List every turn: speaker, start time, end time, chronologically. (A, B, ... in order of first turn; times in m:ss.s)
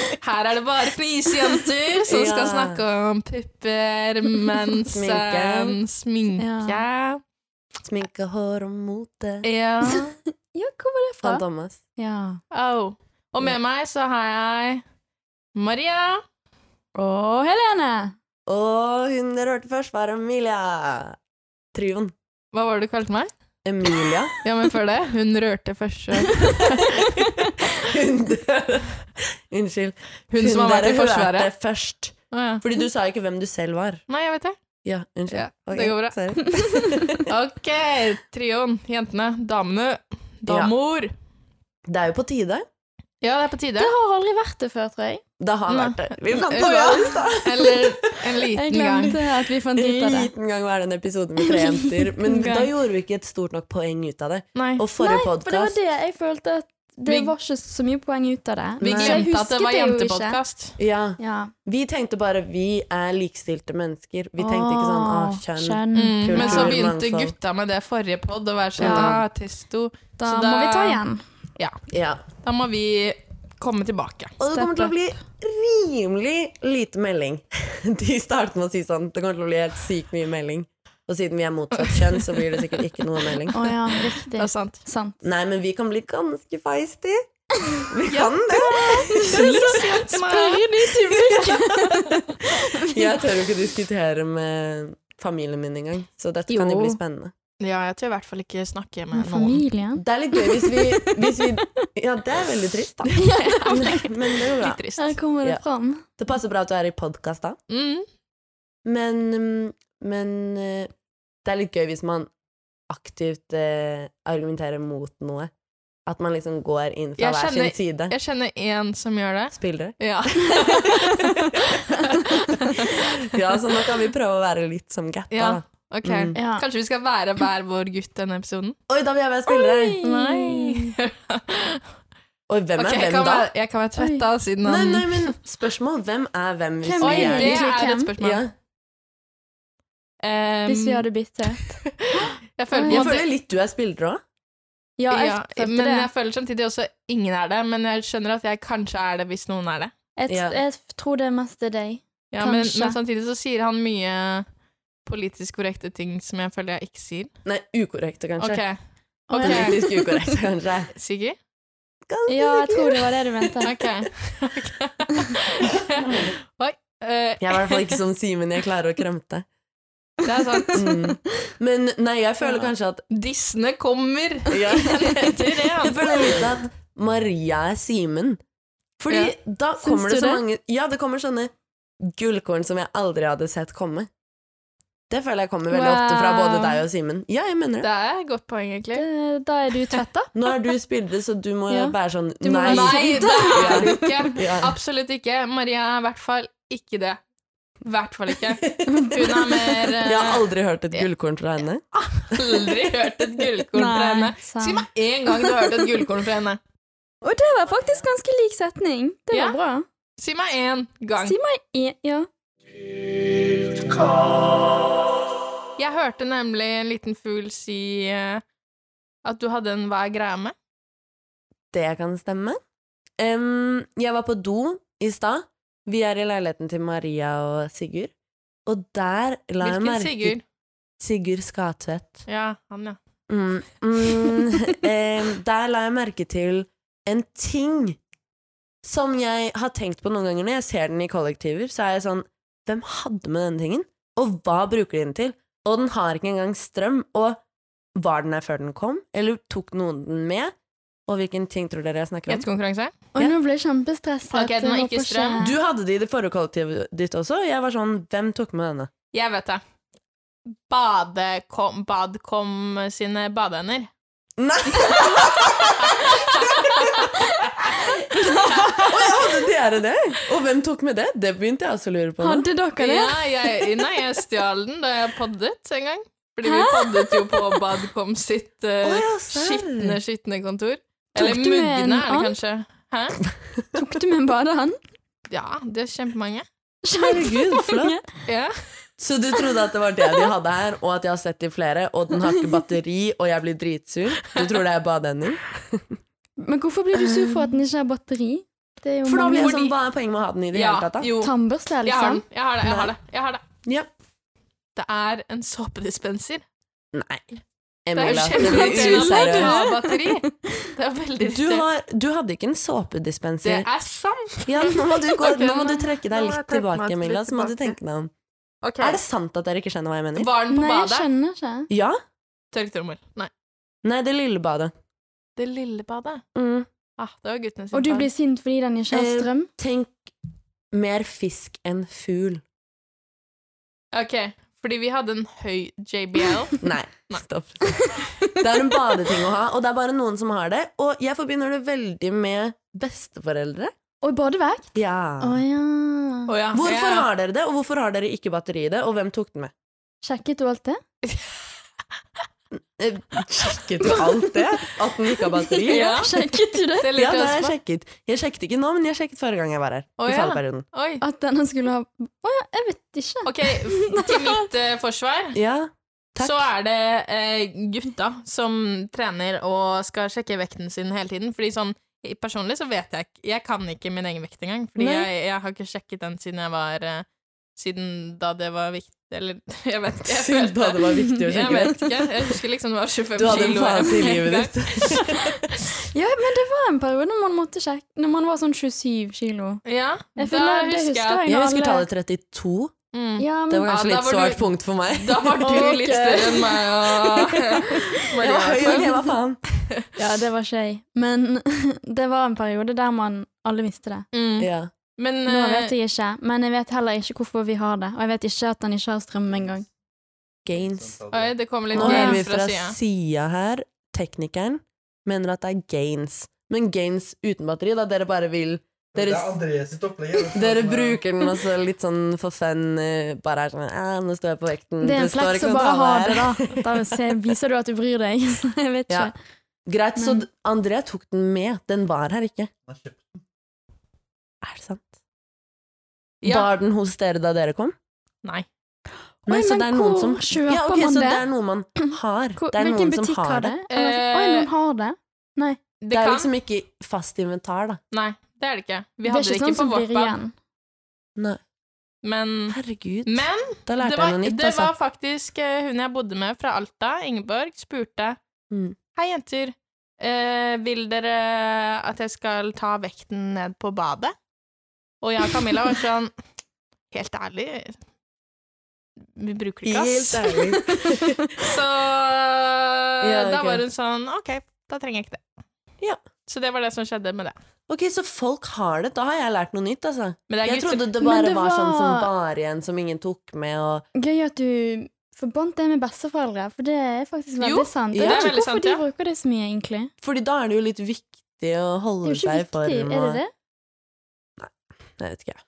0:00.2-0:07.2 A
0:02.1-0:02.8 B
0:04.8-0:05.8 B
0:06.4-0:06.8 C
0:07.8-0:09.5 B
0:09.4-0:10.1 A
0:09.8-0:11.4 C
0:11.2-0:11.8 B
0:12.0-0:12.4 C
0:12.5-0:14.8 A
0:15.5-0:16.2 A
0:16.9-0:18.1 C
0:18.5-0:21.2 B
0:21.7-0:22.1 B
0:22.5-0:23.3 A
0:23.6-0:24.3 B
0:24.4-0:27.0 A
0:26.6-0:27.5 C
0:27.0-0:34.0 B
0:30.3-0:31.5 A
0:32.3-0:32.6 A
0:34.1-0:34.5 A
0:34.8-0:37.3 B
0:35.3-0:36.4 A
0:36.4-0:37.2 C
0:37.2-0:41.1 A
0:40.5-0:40.7 B
0:41.8-0:42.6 B
0:43.2-0:43.9 A
0:43.8-0:45.2 C
0:45.4-0:48.2 B
0:45.7-0:49.2 A
0:48.5-0:50.3 C
0:49.7-0:55.8 B
0:51.4-0:52.7 C
0:54.5-0:54.8 A
0:55.0-1:00.4 C
0:57.1-0:57.3 A
0:58.8-0:59.2 B
0:58.8-1:00.8 A
1:00.8-1:07.3 B
1:01.2-1:01.5 C
1:04.4-1:06.8 C
1:05.9-1:11.0 A
1:08.8-1:09.2 B
1:08.8-1:09.2 C
1:10.2-1:11.2 C
1:11.9-1:12.2 B
1:12.4-1:14.4 A
1:14.4-1:23.6 B
1:14.5-1:14.9 C
1:21.7-1:24.8 A
1:23.5-1:25.2 C
1:25.2-1:27.2 B
1:27.8-1:29.7 B
1:28.1-1:30.7 A
1:28.6-1:33.3 C
1:31.0-1:32.0 B
1:32.7-1:37.3 B
1:36.5-1:37.0 A
1:37.6-1:39.6 A
1:39.1-1:41.8 C
1:40.0-1:44.8 B
1:43.0-1:46.0 C
1:43.5-1:43.8 A
1:44.4-1:45.2 A
1:46.2-1:47.6 B
1:47.7-1:48.0 A
1:48.8-1:50.9 B
1:51.4-1:52.3 B
1:52.9-1:55.5 B
1:56.0-1:58.1 B
1:57.2-2:01.3 A
1:59.5-2:00.0 B
2:00.5-2:01.8 B
2:01.9-2:03.0 A
2:02.7-2:06.4 B
2:05.3-2:08.8 A
2:06.3-2:06.6 C
2:08.9-2:10.0 B
2:09.5-2:10.9 C
2:10.0-2:11.8 A
2:12.5-2:13.5 B
2:12.8-2:15.3 A
2:14.0-2:14.2 C
2:14.6-2:17.7 B
2:16.8-2:18.1 C
2:17.0-2:18.4 A
2:18.2-2:18.5 B
2:20.2-2:21.0 A
2:20.7-2:23.2 C
2:21.8-2:23.2 A
2:22.9-2:24.2 B
2:25.0-2:26.1 C
2:25.1-2:29.9 A
2:30.2-2:33.0 C
2:30.3-2:30.6 B
2:32.3-2:34.4 A
2:35.0-2:37.3 A
2:37.4-2:38.6 B
2:38.4-2:38.8 A
2:39.3-2:39.8 A
2:39.3-2:40.1 C
2:39.4-2:40.9 B
2:40.9-2:41.4 A
2:42.1-2:43.5 B
2:42.3-2:43.7 C
2:43.6-2:48.0 A
2:47.4-2:49.4 B
2:50.2-2:50.8 A
2:50.5-2:51.0 C
2:50.7-2:53.0 B
2:53.1-2:56.4 A
2:54.5-2:58.4 B
2:59.0-3:04.1 B
2:59.1-2:59.3 A
2:59.8-3:00.4 C
3:05.1-3:07.9 B
3:05.7-3:06.8 C
3:07.8-3:09.0 A
3:08.9-3:10.3 C
3:10.3-3:14.8 B
3:11.7-3:14.3 C
3:12.6-3:17.2 A
3:17.8-3:21.0 A
3:18.6-3:22.8 B
3:18.8-3:19.4 C
3:22.1-3:26.6 A
3:23.7-3:25.8 C
3:27.2-3:29.8 C
3:29.3-3:29.6 A
3:30.2-3:31.4 A
3:31.2-3:32.3 C
3:35.8-3:38.4 A
3:39.2-3:40.5 A
3:41.7-3:42.6 B
3:43.2-3:48.1 B
3:48.6-3:50.3 B
3:49.6-3:50.4 A
3:51.0-3:52.2 B
3:52.3-3:53.0 A
3:53.3-3:58.0 B
3:58.8-4:07.4 B
4:08.0-4:10.5 B
4:11.1-4:12.4 B
4:12.3-4:13.0 A
4:13.1-4:15.6 C
4:14.3-4:15.4 A
4:15.4-4:18.9 B
4:19.1-4:19.6 A
4:20.7-4:23.9 A
4:24.4-4:27.8 B
4:24.8-4:27.1 A
4:28.1-4:28.9 C
4:28.2-4:29.0 A
4:28.8-4:32.4 B
4:32.2-4:33.5 C
4:32.8-4:43.2 A
4:36.4-4:37.6 C
4:38.8-4:40.0 B
4:41.2-4:42.3 C
4:43.7-4:44.8 C
4:45.3-4:46.4 A
4:46.8-4:48.0 C
4:46.9-4:48.0 B
4:48.2-4:48.5 A
4:49.0-4:56.0 B
4:56.4-4:59.7 C
4:57.0-4:57.4 B
4:59.0-5:01.1 B
4:59.3-4:59.7 A
5:00.5-5:03.4 A
5:01.2-5:02.2 C
5:02.6-5:02.9 B
5:03.6-5:03.9 B
5:04.8-5:06.4 A
5:06.9-5:07.3 B
5:07.8-5:09.6 B
5:08.0-5:11.6 A
5:08.0-5:10.7 C
5:11.2-5:13.7 B
5:13.4-5:17.8 A
5:14.4-5:18.1 B
5:18.6-5:19.0 A
5:18.8-5:20.3 B
5:20.2-5:21.0 A
5:20.5-5:21.7 C
5:21.7-5:22.0 B
5:22.5-5:23.3 A
5:23.8-5:24.7 B
5:25.4-5:26.2 A
5:26.3-5:26.7 B
5:27.0-5:28.1 A
5:27.7-5:29.5 C
5:28.9-5:30.1 B
5:30.7-5:32.4 B
5:33.9-5:37.2 A
5:36.6-5:43.7 B
5:37.9-5:38.3 C
5:44.0-5:46.3 C
5:44.7-5:45.4 B
5:46.3-5:47.1 A
5:46.5-5:49.5 B
5:50.0-5:50.8 C
5:51.0-5:51.3 A
5:52.8-5:56.1 B
5:55.6-5:56.9 C
5:55.7-5:56.1 A
5:56.8-5:57.5 A
5:56.9-6:00.6 B
6:00.0-6:01.0 A
6:01.0-6:04.4 C
6:03.2-6:05.4 A
6:05.3-6:06.5 B
6:06.2-6:17.0 A
6:14.8-6:15.1 B
6:17.6-6:25.2 A
6:20.0-6:22.1 B
6:23.1-6:25.5 B
6:25.9-6:29.6 C
6:29.6-6:31.2 A
6:30.2-6:31.8 C
6:31.2-6:32.7 B
6:32.9-6:38.9 A
6:33.2-6:33.7 C
6:33.5-6:39.4 B
6:35.4-6:36.4 C
6:40.0-6:44.0 C
6:44.1-6:45.7 A
6:44.4-6:44.7 B
6:45.3-6:49.6 C
6:50.4-6:51.0 B
6:50.5-6:51.4 D
6:51.1-6:52.8 A
6:51.7-6:59.4 B
6:51.7-6:52.2 C
6:58.9-7:01.0 D
7:00.3-7:06.9 B
7:04.8-7:09.1 C
7:09.7-7:12.5 B
7:10.0-7:10.2 C
7:12.7-7:13.0 D
7:14.4-7:14.8 B
7:16.2-7:16.5 A
7:16.2-7:17.7 B
7:19.2-7:21.2 C
7:19.2-7:23.6 B
7:21.8-7:25.6 C
7:23.7-7:24.5 A
7:25.8-7:26.3 A
7:25.9-7:27.8 B
7:27.9-7:30.2 A
7:29.0-7:30.3 C
7:32.0-7:38.2 A
7:32.5-7:34.7 B
7:38.5-7:38.8 B
7:38.9-7:44.1 A
7:45.0-7:46.1 A
7:46.9-7:47.8 A
7:49.1-7:50.5 A
7:49.6-7:51.3 B
7:50.5-7:51.0 C
7:51.4-7:55.2 A
7:53.0-7:53.6 B
7:56.3-7:57.3 A
7:57.7-8:03.8 B
8:00.3-8:00.9 A
8:01.0-8:02.1 C
8:03.9-8:09.9 C
8:07.4-8:08.8 A
8:07.9-8:08.3 B
8:10.0-8:13.2 B
8:12.0-8:13.3 C
8:14.4-8:15.4 B